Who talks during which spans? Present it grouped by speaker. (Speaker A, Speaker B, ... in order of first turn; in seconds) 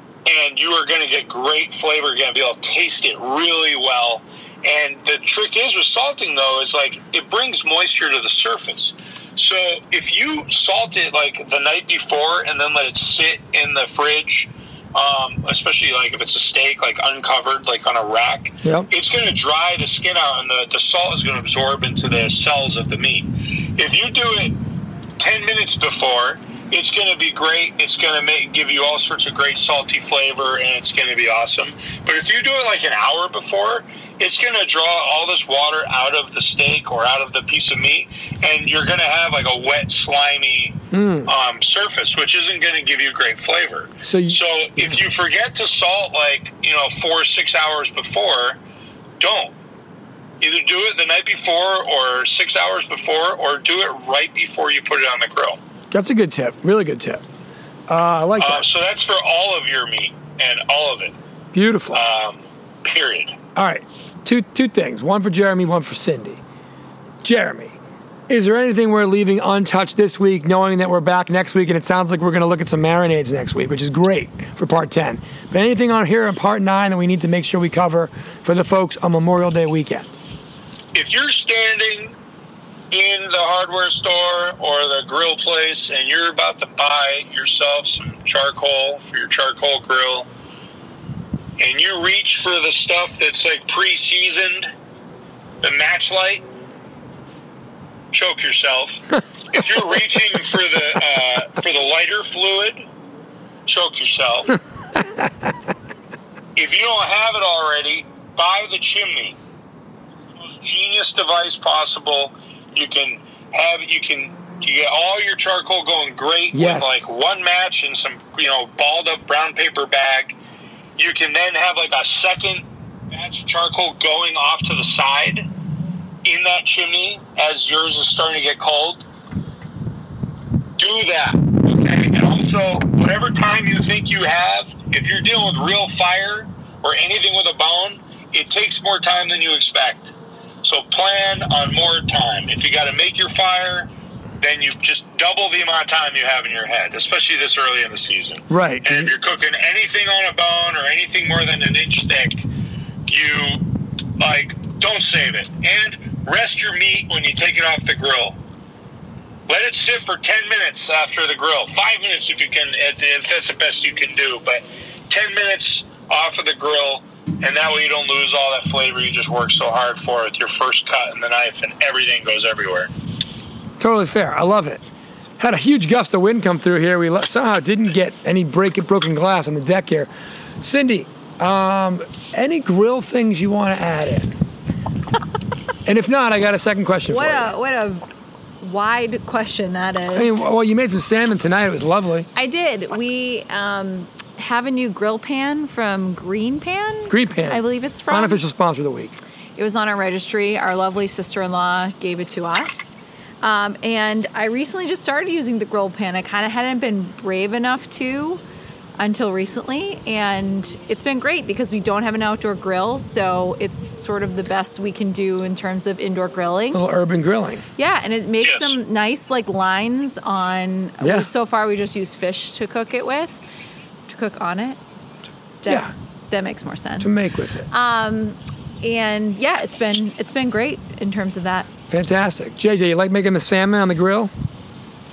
Speaker A: 0.2-24.5, 25.2-48.6, 49.2-49.5, 50.4-55.6, 58.4-61.1, 61.9-63.4, 80.9-82.2, 82.9-90.3, 91.6-94.7, 95.6-96.4, 98.1-102.9, 103.7-104.5, 106.5-109.4, 110.3-120.4, 121.0-125.5, 126.2-129.1, 130.8-143.9, 144.4-152.5, 153.1-153.6, 154.2-158.4, 159.5-172.9, 218.4-218.8
Speaker B: 18.6-18.9, 40.9-41.3, 44.0-45.0, 55.9-57.2, 57.9-58.6, 61.5-62.0, 63.5-66.4, 67.2-67.8, 68.3-80.1, 116.5-117.1, 148.5-149.1, 173.8-174.8, 175.4-184.4, 185.8-187.5, 190.1-192.3, 197.1-199.1, 216.7-217.6, 221.0-221.3, 225.7-225.9, 227.0-227.7, 231.9-234.3
Speaker C: 187.1-188.1, 188.6-190.4, 192.3-198.4, 199.6-208.4, 209.0-216.8, 217.8-223.4, 224.1-224.8, 225.6-227.1, 227.7-231.7